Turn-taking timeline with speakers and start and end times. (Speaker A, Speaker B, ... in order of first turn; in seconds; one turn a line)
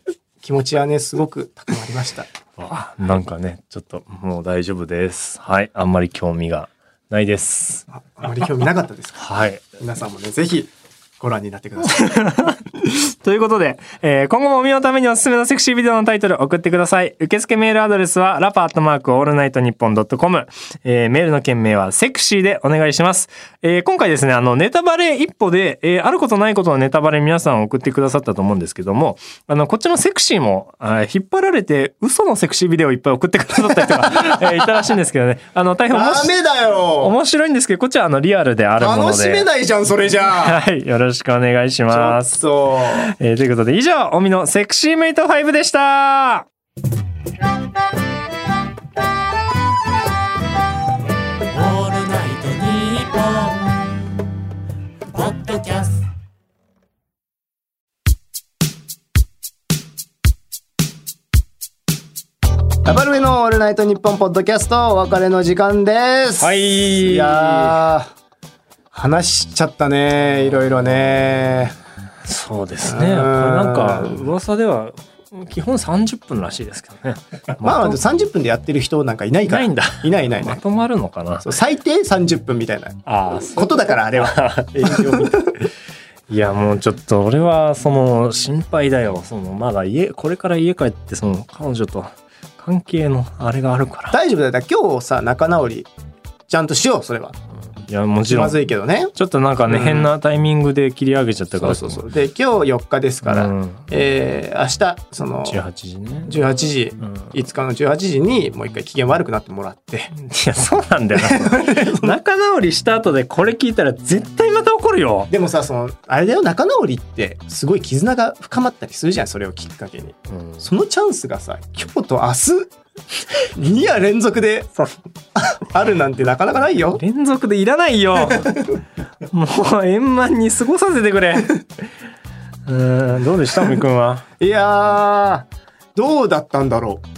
Speaker A: 0.4-2.3
Speaker B: 2.6-7.8
Speaker A: 7.9-9.2
Speaker B: 9.2-9.6
Speaker A: 9.8-12.5
Speaker B: 11.8-36.3
Speaker A: 33.9-34.6
Speaker A: 35.9-37.1
Speaker B: 37.0-39.5
Speaker A: 38.8-40.6
Speaker B: 40.3-42.4
Speaker A: 41.9-43.1
Speaker B: 42.9-46.5
Speaker B: 51.5-53.8
Speaker B: 55.1-56.0
Speaker A: 62.9-68.1
Speaker B: 66.4-67.8
Speaker A: 68.9-71.8
Speaker B: 72.3-78.0
Speaker A: 72.8-74.3
Speaker A: 77.6-80.6
Speaker B: 79.5-81.5
Speaker A: 81.4-85.6
Speaker B: 83.1-85.6
Speaker B: 86.3-94.2
Speaker A: 94.1-95.9
Speaker A: 96.5-97.4
Speaker B: 97.9-98.6
Speaker A: 98.3-99.1
Speaker B: 99.2-102.0
Speaker A: 99.7-100.1
Speaker A: 101.6-105.6
Speaker B: 103.2-103.8
Speaker B: 105.5-106.4
Speaker A: 106.2-110.1
Speaker B: 107.0-107.3
Speaker B: 110.2-115.3
Speaker A: 111.1-112.2
Speaker A: 115.3-122.7
Speaker B: 120.3-120.6
Speaker A: 123.5-124.7
Speaker A: 125.4-127.0
Speaker B: 127.0-128.7
Speaker B: 129.3-131.7
Speaker B: 132.7-134.3
Speaker A: 134.4-137.0